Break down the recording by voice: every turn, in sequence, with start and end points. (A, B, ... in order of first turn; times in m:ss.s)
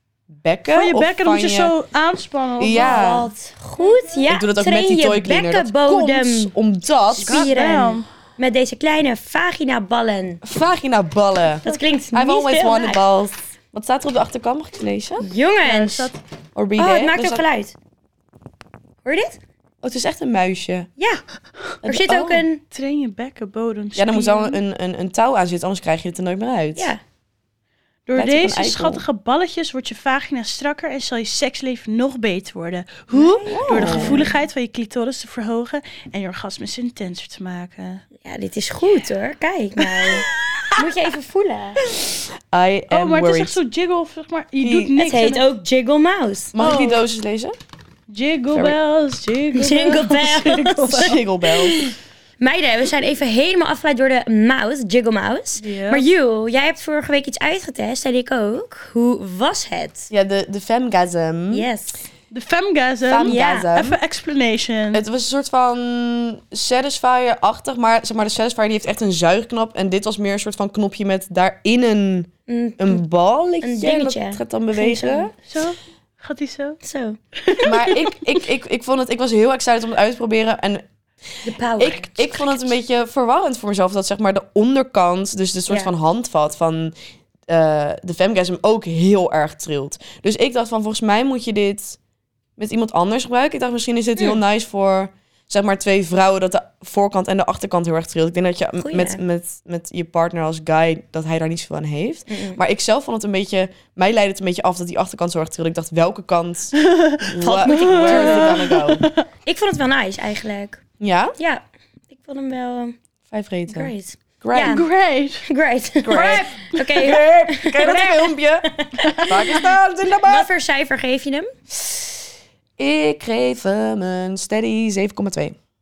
0:00.4-0:01.7 A
0:00.7-0:03.2 B
0:02.6-0:03.3 A
0:02.7-0:06.5 C
0:03.8-0:04.2 B
0:04.3-0:07.6 A
0:07.1-0:10.4 C
0:07.2-0:08.0 B
0:10.4-0:15.3 A
0:11.6-0:13.0 C
0:15.2-0:16.1 C
0:15.6-0:16.2 B
0:16.5-0:17.4 A
0:16.8-0:17.7 C
0:19.0-0:19.4 C
0:19.8-0:20.9 A
0:21.8-0:22.6 C
0:21.8-0:22.4 A
0:22.7-0:24.6 B
0:24.0-0:26.9 A
0:26.8-0:27.0 C
0:28.1-0:38.0 B
0:28.2-0:29.0 A
0:33.1-0:34.3 C
0:33.4-0:34.3 A
0:38.2-0:41.8 C
0:42.5-0:43.6 A
0:42.9-0:45.4 B
0:44.6-0:45.0 A
0:45.0-0:46.5 C
0:46.5-0:47.5 A
0:46.6-0:47.0 B
0:48.1-0:51.2 B
0:49.5-1:00.1 C
0:50.9-0:51.8 A
0:55.6-0:56.0 B
1:00.1-1:01.7 A
1:01.5-1:02.0 C
1:02.3-1:05.0 B
1:03.1-1:04.0 A
1:03.2-1:03.7 C
1:04.9-1:15.3 A
1:12.5-1:13.0 C
1:13.6-1:15.3 C
1:15.4-1:16.8 B
1:16.8-1:18.0 C
1:17.4-1:18.1 B
1:17.6-1:20.8 A
1:21.4-1:22.6 C
1:21.8-1:26.9 A
1:27.5-1:32.0 A
1:32.6-1:49.0 A
1:38.8-1:39.2 C
1:42.3-1:42.6 C
1:46.8-1:49.2 B
1:47.4-1:48.6 C
1:49.4-1:50.8 C
1:51.0-1:51.4 A
1:51.4-1:52.9 C
1:53.3-1:54.8 A
1:53.7-1:54.8 C
1:54.6-1:55.4 B
1:55.4-1:59.6 C
1:56.0-1:58.6 A
1:59.0-1:59.6 B
1:59.2-2:00.5 A
2:00.2-2:01.5 C
2:02.8-2:05.6 A